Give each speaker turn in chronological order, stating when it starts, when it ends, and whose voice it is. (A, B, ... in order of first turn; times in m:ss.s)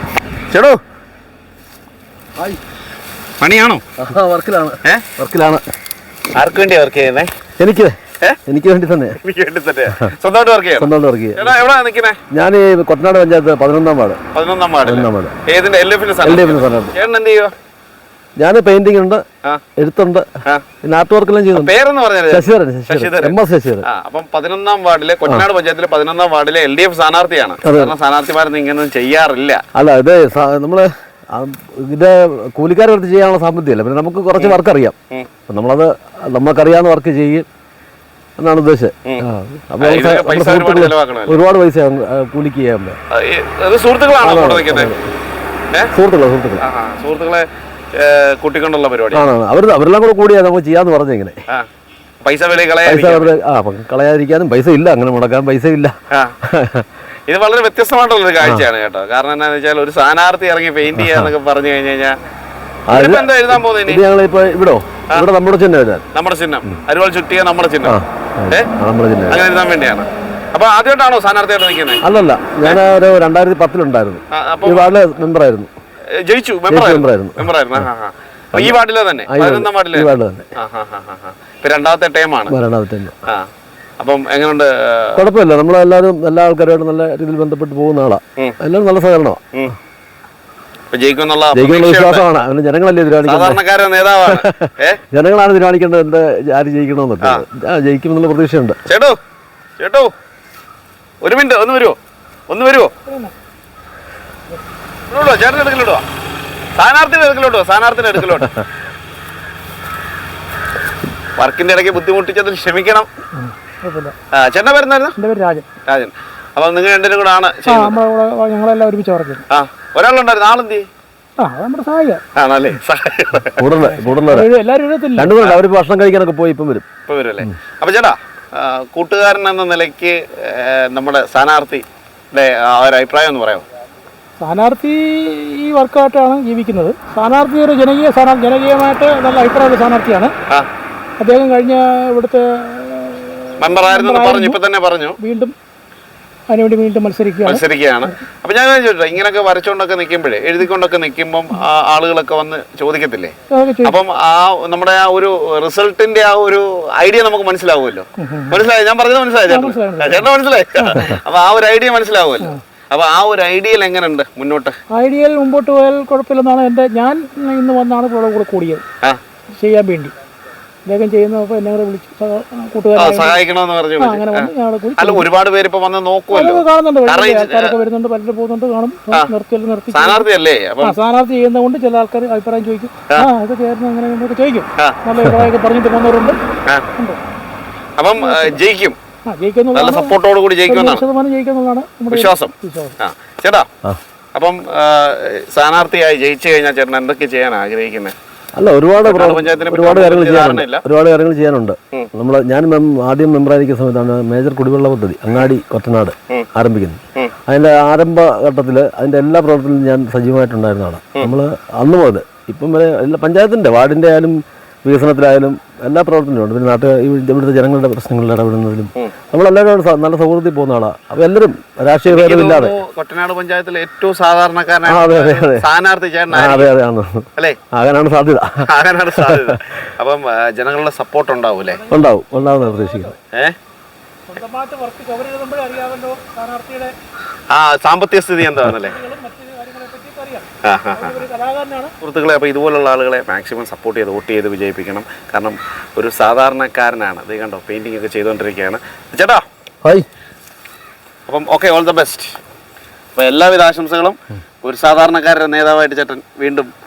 0:00.5-0:00.8 A
0:03.4-0:03.8 A
0:04.0-0:05.6 B
0:06.4-0:07.3 A
0:07.6-0:09.2 B
0:09.2-0:12.2 A
0:10.8-0:11.5 B
0:12.3-0:14.2 B
0:14.3-0:17.5 A
0:14.8-0:15.3 B
0:16.2-0:16.9 B
0:18.4-0:19.2 B
0:19.8-0:20.2 B
0:20.8-0:21.7 B
0:21.5-0:29.6 A
0:22.3-0:23.8 B
0:27.6-0:27.9 B
0:29.7-0:34.9 B
0:35.5-0:37.4 B
0:38.4-0:43.0 B
0:39.8-0:41.4 A
0:43.1-0:44.9 A
0:44.2-0:45.0 B
0:45.9-0:46.6 B
0:46.6-0:49.2 A
0:49.1-0:51.4 B
0:52.2-0:53.3 A
0:52.8-0:55.9 B
0:56.4-0:56.9 B
0:57.3-1:02.1 A
1:00.9-1:01.3 B
1:02.9-1:06.0 B
1:02.9-1:04.0 A
1:06.1-1:08.7 A
1:07.8-1:09.4 B
1:09.3-1:12.0 A
1:12.0-1:15.7 B
1:14.3-1:14.9 A
1:16.2-1:22.5 A
1:16.7-1:17.8 B
1:18.5-1:20.5 B
1:22.5-1:23.2 B
1:24.0-1:25.2 A
1:25.2-1:29.4 B
1:30.9-1:32.2 A
1:31.5-1:33.6 B
1:33.2-1:35.0 A
1:34.3-1:38.8 B
1:38.9-1:39.2 A
1:39.8-1:40.1 A
1:41.2-1:42.0 A
1:42.5-1:42.9 A
1:43.1-1:43.3 C
1:45.1-1:46.0 A
1:46.8-1:48.5 A
1:51.4-1:53.1 A
1:53.4-1:54.1 C
1:54.3-1:55.1 A
1:55.2-1:55.6 C
1:55.9-1:58.0 A
1:57.7-1:59.4 C
1:59.5-2:00.9 A
2:01.4-2:02.2 C
2:02.3-2:03.6 A
2:03.6-2:04.5 B
2:04.0-2:05.4 C
2:05.2-2:06.8 B
2:07.1-2:13.6 A
2:14.4-2:20.3 C
2:21.2-2:24.6 C
2:23.6-2:25.2 A
2:25.2-2:25.5 C
2:26.5-2:27.6 C
2:27.4-2:44.8 A
2:33.5-2:34.0 C
2:38.2-2:38.6 C
2:39.5-2:41.2 C
2:44.9-2:48.8 C
2:49.5-2:50.1 C
2:50.9-2:53.4 C
2:53.0-2:57.7 A
2:54.0-2:55.3 C
2:56.3-3:00.2 C
2:59.9-3:01.0 A
3:00.8-3:06.4 C
3:05.2-3:05.5 B
3:08.0-3:09.0 A
3:08.2-3:08.6 C
3:09.3-3:10.1 C
3:09.7-3:11.0 A
3:10.7-3:12.9 C
3:12.1-3:13.7 A
3:14.3-3:18.1 A
3:18.6-3:42.7 B
3:19.0-3:20.8 A
3:42.1-3:46.7 A
3:44.8-3:45.6 B
3:46.3-3:49.6 B
3:48.6-3:51.8 A
3:51.6-3:53.2 C
3:51.9-3:53.1 B
3:54.3-3:56.9 C
3:57.5-3:59.0 A
3:58.6-4:01.9 C
4:00.6-4:01.2 A
4:02.0-4:09.4 A
4:11.3-4:12.4 A
4:13.2-4:16.7 A